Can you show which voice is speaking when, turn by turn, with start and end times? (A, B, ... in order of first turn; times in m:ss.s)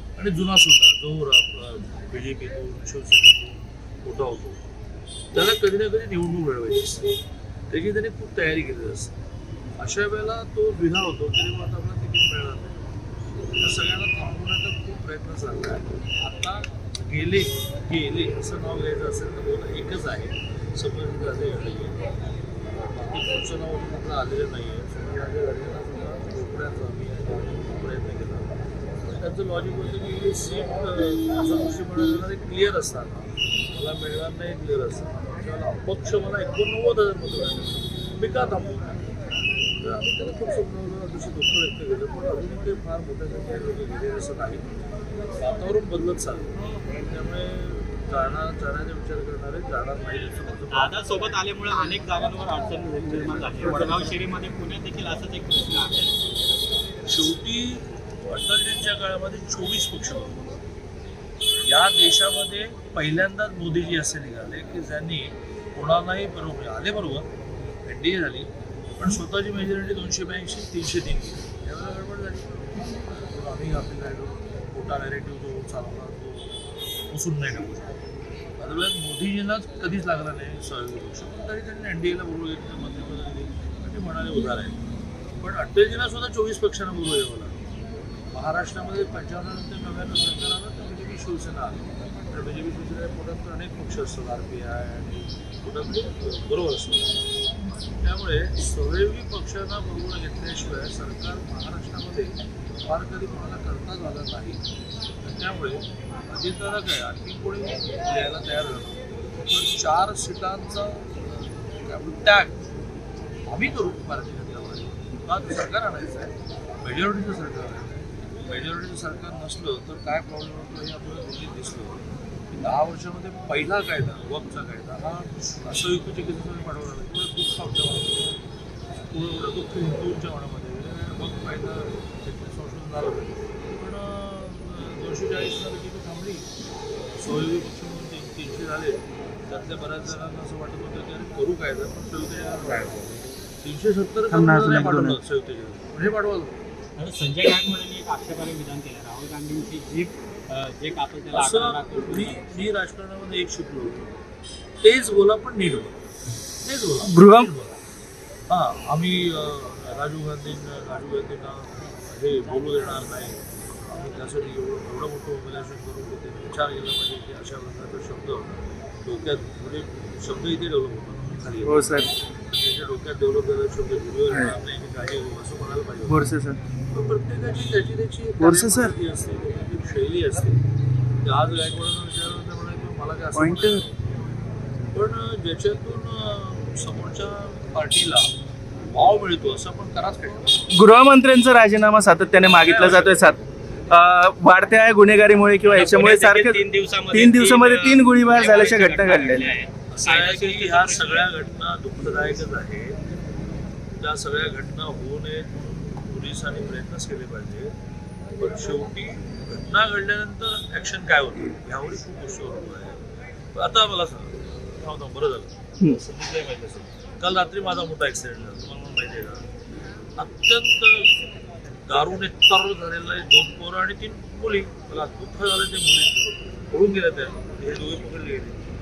0:00.2-0:04.6 A
0:05.3-0:07.1 A
0:07.7-0:09.1 A
0:09.8-0:12.8 A
0:13.6-0:22.0 A
0:22.7-0:28.5 A
0:29.0-0:39.0 A
0:39.8-0:44.7 A
0:45.4-0:51.0 A
0:50.7-0:56.1 B
0:53.0-0:54.2 A
0:57.0-1:00.4 A
1:01.6-1:07.3 A
1:07.8-1:16.6 A
1:17.1-1:17.9 A
1:18.6-1:24.7 A
1:25.4-1:27.6 A
1:28.3-1:37.2 A
1:38.0-1:42.3 A
1:42.9-1:44.6 A
1:45.2-1:52.6 A
1:53.5-2:08.4 A
2:09.0-2:26.5 A
2:22.7-2:23.0 C
2:24.3-2:25.2 C
2:27.0-2:32.7 B
2:31.3-2:34.1 A
2:34.8-2:36.0 A
2:36.6-2:37.8 A
2:37.0-2:37.5 C
2:38.5-2:48.5 A
2:49.0-2:56.3 A
2:51.6-2:52.1 C
2:56.0-2:56.6 C
2:56.9-3:00.6 A
2:58.4-2:58.9 C
3:01.2-3:04.1 A
3:03.3-3:03.8 C
3:04.9-3:08.3 A
3:08.9-3:10.6 A
3:10.7-3:13.4 C
3:12.4-3:13.3 A
3:13.9-3:19.5 C
3:15.6-3:21.3 B
3:19.9-3:23.0 A
3:24.0-3:27.7 A
3:28.4-3:33.0 A
3:33.5-3:39.4 A
3:40.2-3:41.1 A
3:41.9-3:48.6 A